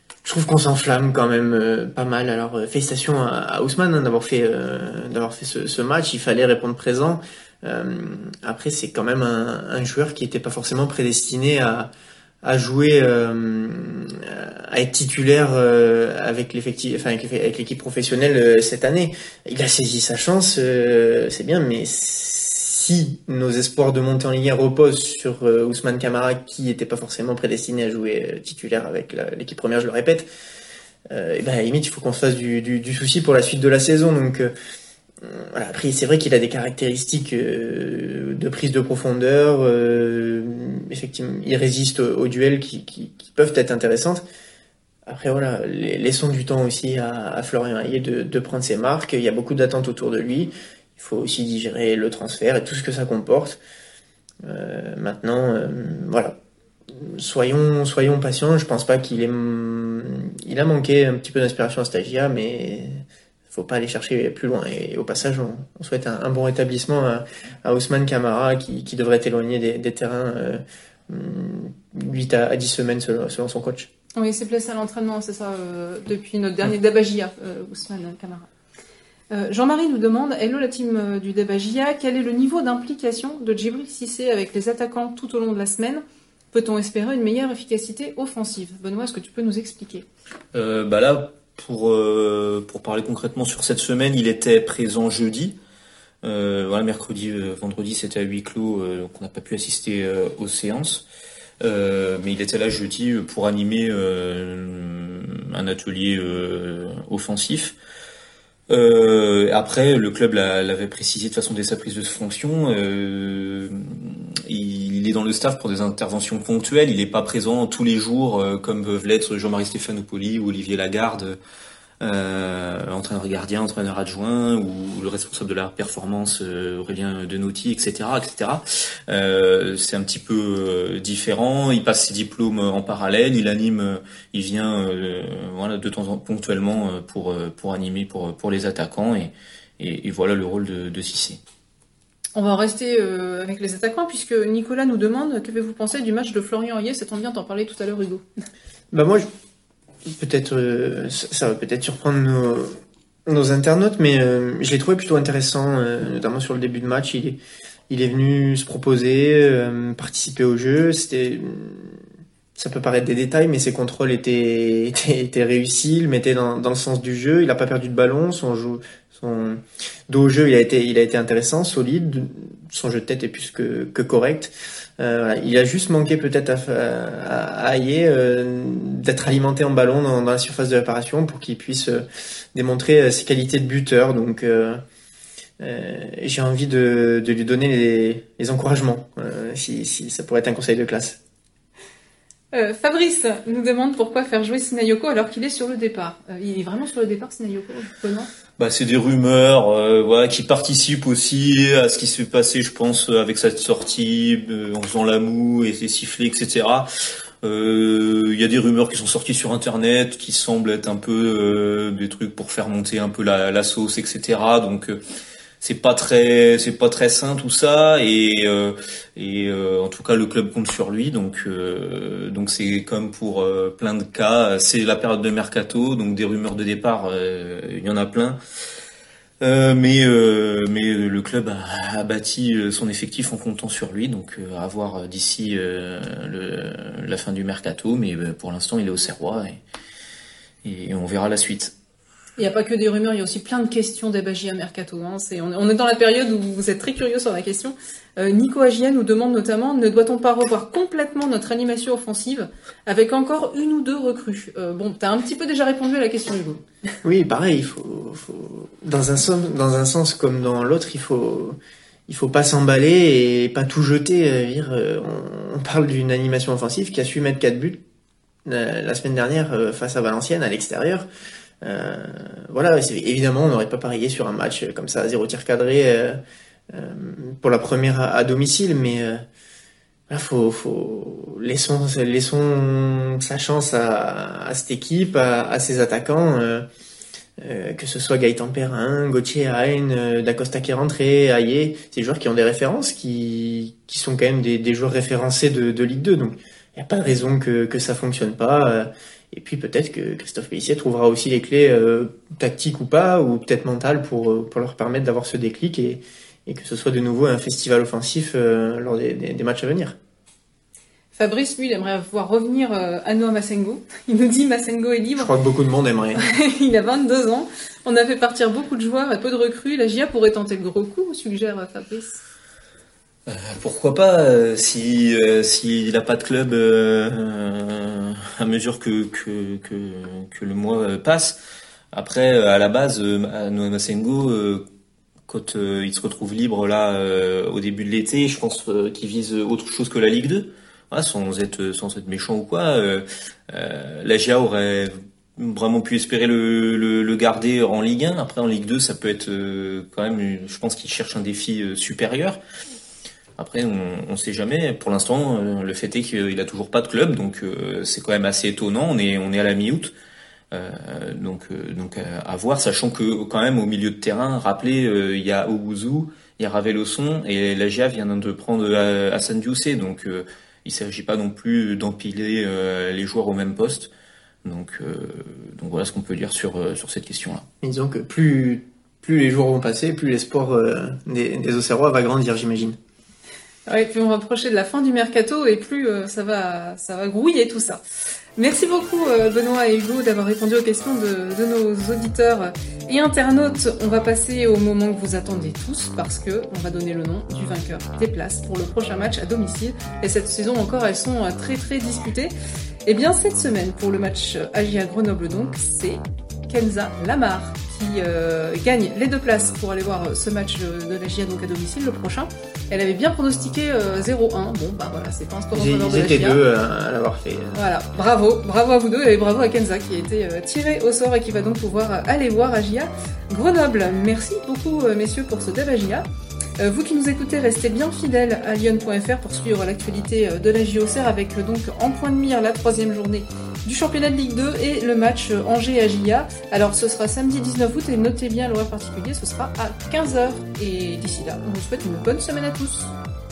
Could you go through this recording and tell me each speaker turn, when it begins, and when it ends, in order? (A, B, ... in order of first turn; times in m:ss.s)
0:00.2-0:11.9 A
0:12.4-0:30.3 A
0:31.1-0:34.5 A
0:35.2-0:44.2 A
0:45.0-0:53.6 A
0:54.4-0:56.3 A
0:56.9-1:13.9 A
1:14.2-1:18.5 B
1:19.3-1:30.0 B
1:30.5-1:35.5 C
1:36.2-1:41.0 C
1:41.6-1:47.7 C
1:48.7-2:01.4 C
2:02.0-2:21.4 C
2:22.3-2:28.2 B
2:28.9-2:29.3 A
2:30.1-2:42.0 A
2:42.6-3:04.8 A
3:05.6-3:11.2 A
3:12.5-3:18.3 B
3:18.6-3:26.9 C
3:27.4-3:35.0 C
3:35.6-3:48.4 C
3:49.4-3:59.6 C
4:00.6-4:01.7 C
4:02.4-4:16.6 B
4:17.0-4:27.8 A
4:28.4-4:31.1 A
4:31.6-4:36.2 A
4:36.7-4:39.2 A
4:40.1-4:46.6 A
4:47.4-5:10.0 A
5:11.1-5:15.3 B
5:15.2-5:16.2 A
5:16.2-5:22.2 B
5:23.3-5:31.4 C
5:31.9-5:34.6 C
5:35.3-5:52.4 C
5:53.4-5:59.9 C
6:00.5-6:13.9 C
6:14.4-6:17.4 C
6:17.6-6:22.8 A
6:23.7-6:27.8 B
6:28.4-6:42.3 B
6:42.8-6:56.4 B
6:55.5-6:57.6 A
6:57.5-7:06.0 B
7:06.6-7:22.9 B